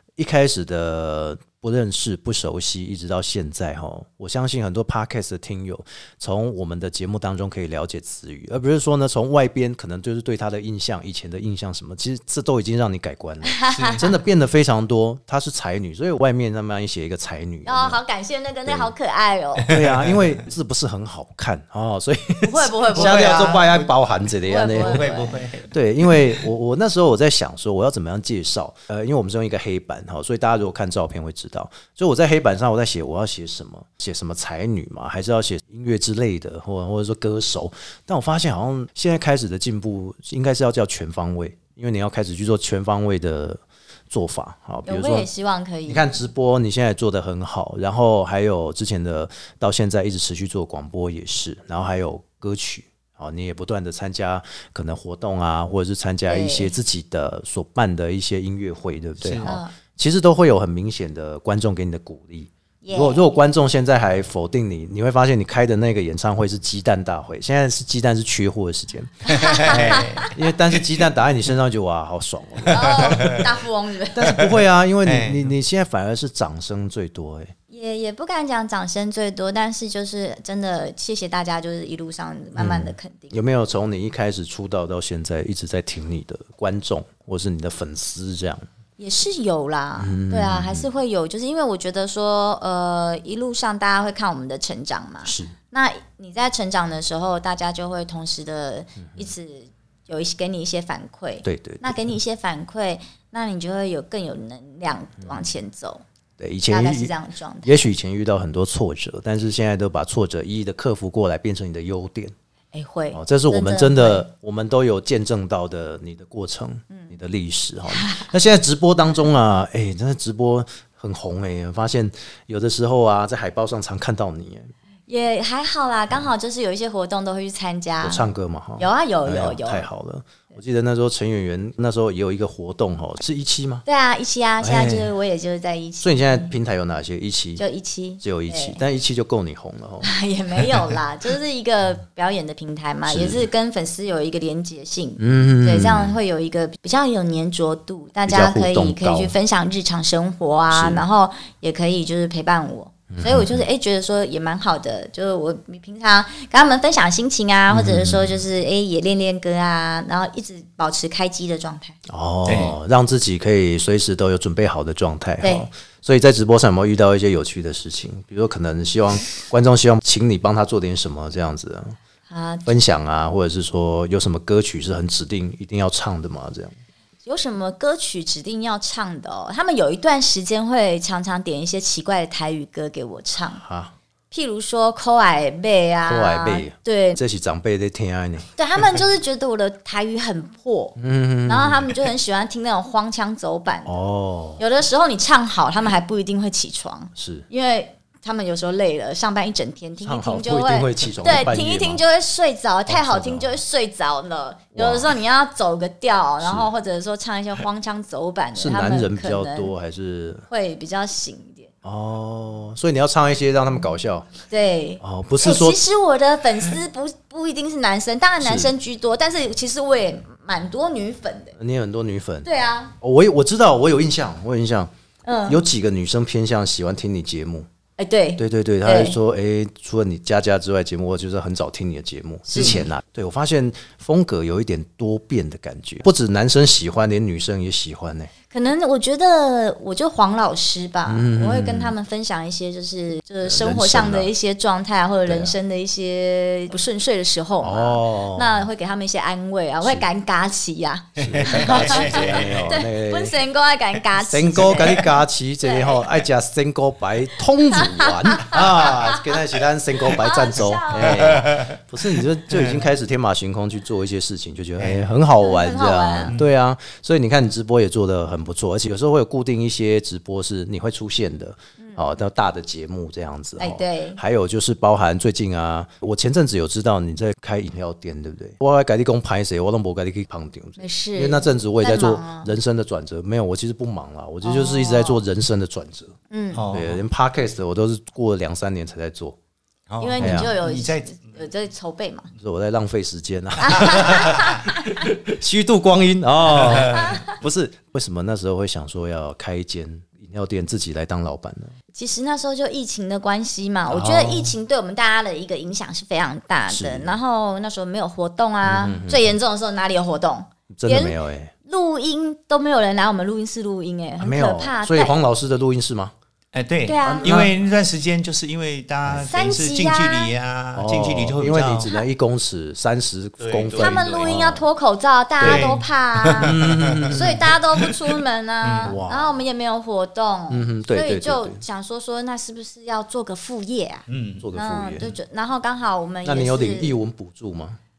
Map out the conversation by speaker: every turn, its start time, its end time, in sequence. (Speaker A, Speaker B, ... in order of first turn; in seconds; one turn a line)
Speaker A: 0.2-18.0
Speaker B: 13.4-14.1
Speaker C: 13.7-14.1
Speaker B: 17.6-19.7
Speaker C: 19.6-20.4
Speaker A: 19.7-25.1
Speaker B: 22.4-23.8
Speaker C: 22.9-23.9
Speaker B: 24.5-25.4
Speaker C: 24.7-26.4
Speaker A: 25.7-45.3
Speaker B: 44.9-46.1
Speaker A: 45.9-73.4
Speaker B: 56.3-56.7
Speaker C: 59.2-59.5
Speaker B: 59.4-59.7
Speaker B: 62.8-63.2
Speaker B: 69.2-70.3
Speaker C: 69.3-70.8
Speaker C: 72.7-73.5
Speaker B: 72.7-74.3
Speaker A: 74.1-77.5
Speaker C: 74.4-75.5
Speaker B: 77.7-83.4
Speaker A: 82.5-88.7
Speaker B: 89.0-106.0
Speaker A: 90.0-90.9
Speaker A: 95.2-95.5
Speaker A: 101.4-102.0
Speaker A: 106.4-112.3
Speaker B: 106.7-107.9
Speaker B: 112.7-114.2
Speaker A: 113.1-124.7
Speaker B: 117.9-118.3
Speaker B: 125.1-129.9
Speaker A: 128.0-133.8
Speaker B: 133.8-136.5
Speaker A: 134.6-135.1
Speaker A: 136.0-137.6
Speaker B: 137.6-138.8
Speaker A: 138.2-140.1
Speaker B: 140.0-162.0
Speaker A: 143.1-143.4
Speaker A: 145.2-146.2
Speaker A: 148.2-149.3
Speaker A: 150.7-151.0
Speaker A: 153.1-153.6
Speaker A: 157.7-158.4
Speaker A: 162.1-172.0
Speaker C: 162.4-162.8
Speaker B: 172.3-172.7
Speaker A: 172.7-176.7
Speaker B: 177.2-183.6
Speaker A: 183.6-183.9
Speaker B: 184.3-187.2
Speaker A: 186.1-188.5
Speaker B: 188.6-193.9
Speaker A: 191.0-191.9
Speaker A: 193.8-194.6
Speaker B: 194.6-209.7
Speaker A: 197.2-197.4
Speaker A: 200.0-202.0
Speaker A: 202.9-203.6
Speaker A: 204.7-205.1
Speaker A: 206.4-206.7
Speaker A: 208.6-210.4
Speaker B: 210.5-211.7
Speaker A: 211.8-214.3
Speaker B: 214.5-221.5
Speaker A: 215.0-215.8
Speaker A: 218.4-218.7
Speaker A: 221.6-222.5
Speaker B: 222.4-222.9
Speaker A: 223.0-224.9
Speaker B: 225.2-225.6
Speaker A: 225.4-227.7
Speaker B: 228.0-229.2
Speaker A: 228.4-238.3
Speaker B: 232.5-232.8
Speaker B: 238.5-256.1
Speaker A: 241.1-241.9
Speaker A: 243.4-244.3
Speaker A: 245.2-245.5
Speaker A: 247.6-248.6
Speaker A: 251.2-253.4
Speaker C: 251.2-252.7
Speaker A: 254.2-286.1
Speaker B: 257.7-259.4
Speaker B: 260.0-261.5
Speaker C: 261.2-261.7
Speaker C: 262.5-262.8
Speaker C: 264.8-265.1
Speaker B: 265.4-266.4
Speaker B: 273.6-274.2
Speaker B: 280.8-282.5
Speaker B: 284.4-285.2
Speaker B: 286.3-286.6
Speaker C: 286.5-287.0
Speaker A: 286.7-289.4
Speaker C: 289.9-291.4
Speaker B: 290.0-292.3
Speaker A: 290.2-290.5
Speaker A: 292.4-301.7
Speaker B: 293.6-294.9
Speaker C: 296.5-297.2
Speaker B: 296.9-297.3
Speaker B: 301.9-315.1
Speaker A: 303.9-304.5
Speaker A: 306.7-307.2
Speaker A: 308.6-309.3
Speaker A: 310.7-311.5
Speaker A: 314.2-316.1
Speaker C: 316.5-321.9
Speaker B: 316.8-317.4
Speaker A: 317.1-317.5
Speaker B: 319.2-320.3
Speaker A: 320.7-324.6
Speaker C: 323.4-324.3
Speaker B: 323.8-336.9
Speaker A: 325.4-325.7
Speaker C: 325.4-329.0
Speaker A: 326.4-327.4
Speaker A: 328.8-329.3
Speaker A: 330.5-331.6
Speaker C: 334.1-334.4
Speaker A: 334.4-335.1
Speaker A: 336.2-337.8